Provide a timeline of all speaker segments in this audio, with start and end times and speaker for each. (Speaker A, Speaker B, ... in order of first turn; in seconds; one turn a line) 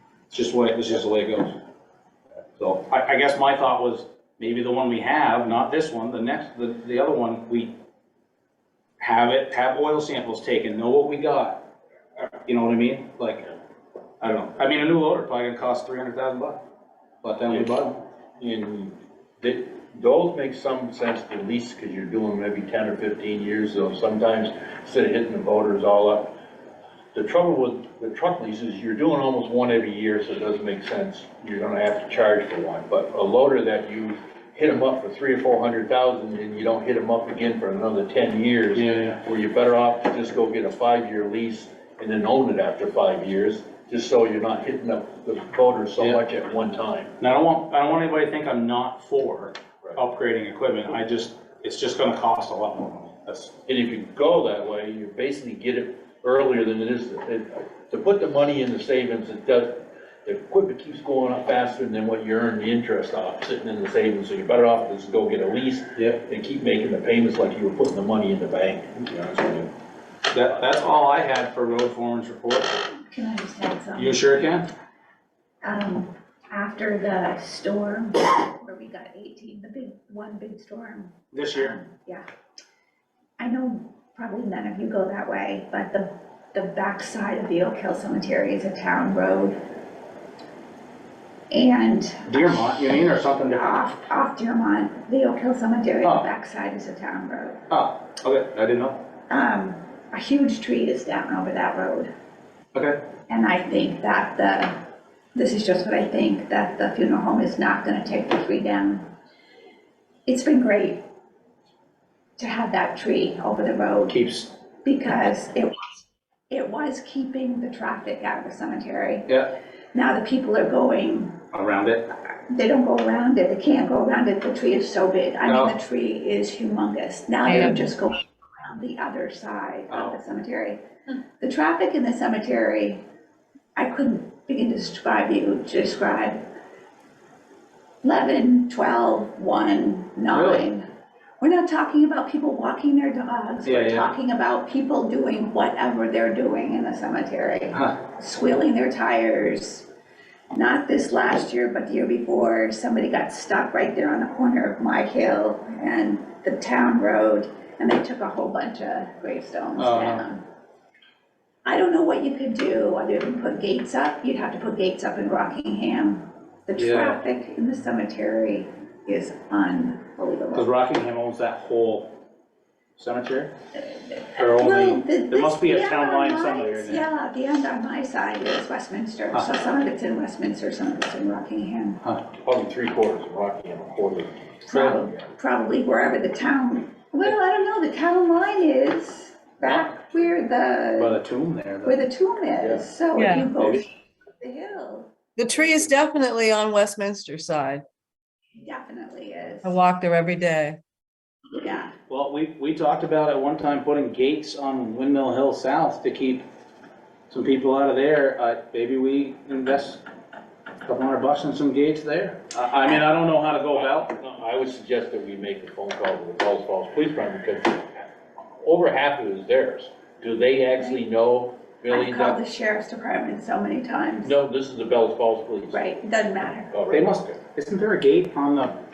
Speaker A: 0.3-1.6
Speaker A: 2.6-7.7
Speaker A: 9.0-11.6
Speaker A: 12.2-13.5
Speaker A: 14.2-16.6
Speaker A: 17.2-18.0
Speaker B: 18.4-26.3
Speaker B: 27.1-47.1
Speaker A: 38.7-39.2
Speaker A: 47.2-53.5
Speaker B: 53.7-69.7
Speaker A: 70.3-72.7
Speaker C: 73.1-74.3
Speaker A: 74.0-74.7
Speaker C: 75.6-82.2
Speaker A: 81.3-81.8
Speaker C: 83.4-89.6
Speaker C: 91.5-92.4
Speaker A: 92.3-93.7
Speaker C: 93.5-97.6
Speaker A: 97.7-99.0
Speaker C: 99.3-102.1
Speaker C: 103.3-104.8
Speaker C: 105.3-109.1
Speaker C: 110.2-111.0
Speaker C: 112.4-114.2
Speaker A: 114.1-114.5
Speaker C: 114.8-115.9
Speaker C: 116.5-119.3
Speaker C: 119.9-121.3
Speaker A: 121.5-122.0
Speaker C: 122.5-130.8
Speaker A: 125.5-125.8
Speaker D: 127.5-127.8
Speaker A: 129.9-130.2
Speaker C: 131.4-133.0
Speaker C: 133.8-136.4
Speaker C: 138.0-140.8
Speaker A: 140.3-140.7
Speaker C: 141.4-149.8
Speaker A: 143.6-144.1
Speaker C: 150.5-160.4
Speaker A: 159.8-160.2
Speaker C: 161.6-170.7
Speaker A: 166.8-167.2
Speaker A: 170.5-172.1
Speaker A: 173.0-173.5
Speaker C: 174.1-182.0
Speaker A: 174.3-177.0
Speaker B: 182.4-184.4
Speaker C: 184.7-191.2
Speaker B: 189.6-189.9
Speaker A: 191.0-192.0
Speaker C: 191.8-195.1
Speaker D: 193.1-193.5
Speaker A: 193.6-193.8
Speaker D: 195.3-197.8
Speaker C: 198.6-199.8
Speaker D: 199.6-200.8
Speaker C: 201.5-201.9
Speaker A: 202.1-206.4
Speaker A: 207.3-210.0
Speaker A: 210.8-214.1
Speaker B: 213.8-218.0
Speaker B: 218.6-222.4
Speaker C: 221.9-224.3
Speaker B: 224.2-225.8
Speaker C: 225.7-226.7
Speaker B: 226.7-227.2
Speaker A: 226.9-228.8